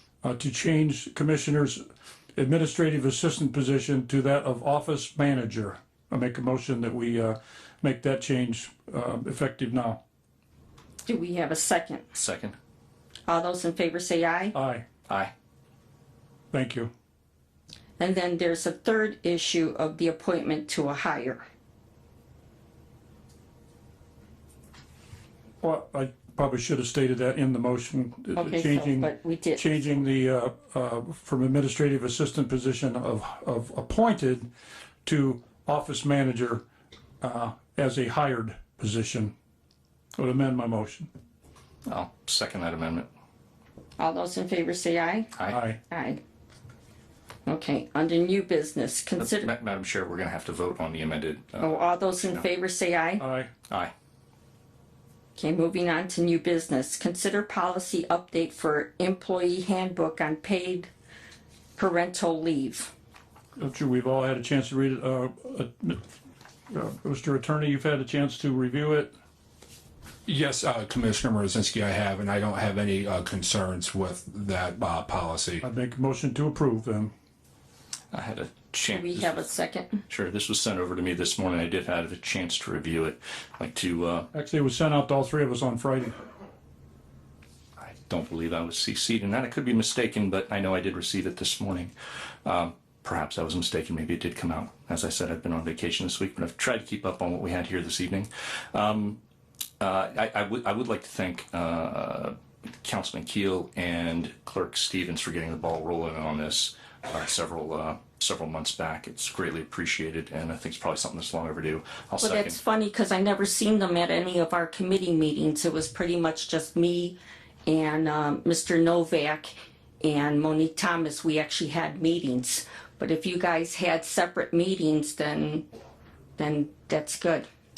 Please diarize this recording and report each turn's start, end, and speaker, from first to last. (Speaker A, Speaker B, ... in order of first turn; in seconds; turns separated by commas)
Speaker A: 0.2-1.8, Speaker A: 2.3-10.0, Speaker B: 11.0-12.2, Speaker C: 12.1-12.5, Speaker B: 13.3-14.5, Speaker A: 14.5-14.8, Speaker A: 16.5-16.9, Speaker B: 18.0-21.4, Speaker A: 25.6-34.5, Speaker B: 28.3-29.8, Speaker A: 35.0-36.6, Speaker A: 37.2-39.3, Speaker A: 40.1-41.1, Speaker C: 41.9-43.1, Speaker B: 44.0-46.2, Speaker A: 45.5-45.8, Speaker B: 47.5-49.5, Speaker C: 49.2-52.4, Speaker B: 51.6-53.2, Speaker A: 53.2-53.5, Speaker B: 55.4-60.9, Speaker B: 61.8-62.9, Speaker A: 63.6-66.0, Speaker A: 66.7-69.1, Speaker D: 70.3-75.6, Speaker A: 75.6-77.1, Speaker C: 78.1-79.5, Speaker B: 78.9-80.0, Speaker C: 80.1-84.3, Speaker A: 84.3-86.2, Speaker C: 87.8-91.9, Speaker C: 92.5-99.2, Speaker C: 99.8-112.6, Speaker B: 112.2-125.7, Speaker B: 126.4-127.5